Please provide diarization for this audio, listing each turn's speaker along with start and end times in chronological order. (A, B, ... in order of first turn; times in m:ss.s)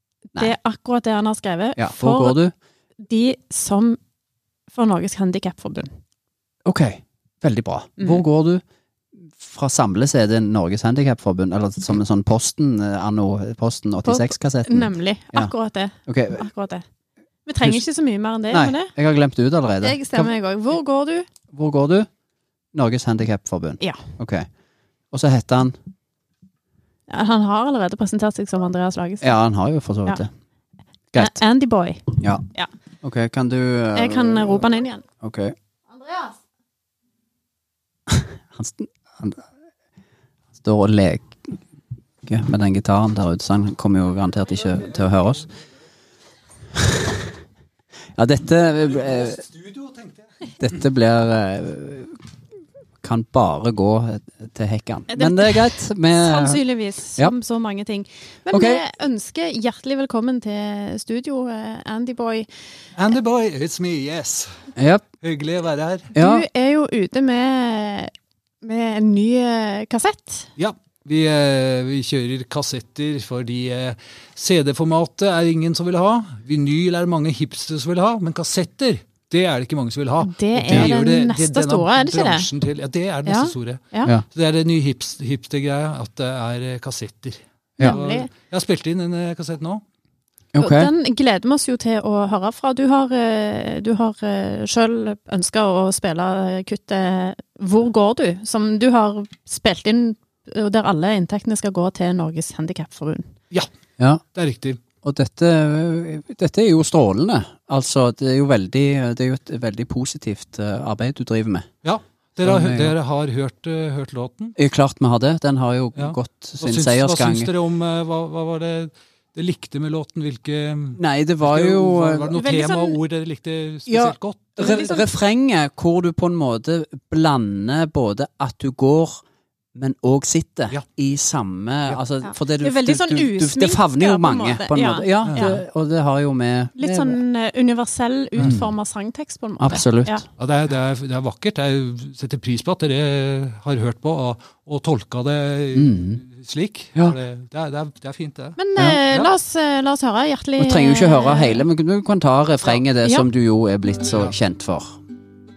0:00.3-0:02.4 A
0:01.8-0:02.5 B
0:03.0-0:04.0 A
0:04.7-0:05.9 A
0:06.6-0:08.6 B
0:09.2-0:15.5 B
0:14.0-0:16.8 A
0:16.1-0:16.4 B
0:17.4-0:18.9 A
0:18.5-0:20.3 B
0:19.8-0:21.3 A
0:21.5-0:22.1 B
0:22.7-0:24.5 B
0:25.1-0:25.8 B
0:27.1-0:29.4 A
0:29.2-0:30.3 B
0:31.1-0:31.4 B
0:31.2-0:32.7 A
0:32.2-0:32.4 B
0:33.0-0:34.7 B
0:33.9-0:35.0 A
0:35.2-0:35.5 B
0:35.9-0:36.3 A
0:38.1-0:39.4 B
0:40.5-0:41.6 B
0:42.2-0:45.5 B
0:46.7-0:47.3 B
0:48.2-0:49.4 B
0:49.6-0:50.2 C
0:50.6-0:52.2 B
0:53.0-0:56.6 B
0:55.1-1:02.5 A
0:58.5-0:58.8 B
1:03.0-1:04.5 C
1:04.8-1:05.0 B
1:05.2-1:06.1 C
1:06.1-1:08.1 A
1:06.1-1:06.5 B
1:08.6-1:10.5 A
1:10.6-1:29.8 C
1:20.2-1:22.5 A
1:23.2-1:24.1 A
1:27.8-1:28.3 A
1:30.5-1:30.9 B
1:30.6-1:43.3 A
1:44.3-1:44.8 C
1:45.0-1:51.7 B
1:51.8-1:54.6 C
1:52.4-1:52.9 B
1:54.6-1:57.5 B
1:56.0-2:05.0 C
2:01.0-2:02.3 B
2:02.3-2:03.0 A
2:03.9-2:09.2 B
2:04.6-2:05.0 A
2:09.7-2:17.2 B
2:12.2-2:15.6 A
2:15.2-2:15.5 C
2:16.8-2:20.2 A
2:18.4-2:18.7 B
2:19.6-2:20.2 B
2:20.4-2:28.6 C
2:25.7-2:26.2 B
2:28.6-2:31.6 A
2:30.6-2:34.9 B
2:33.0-2:33.3 A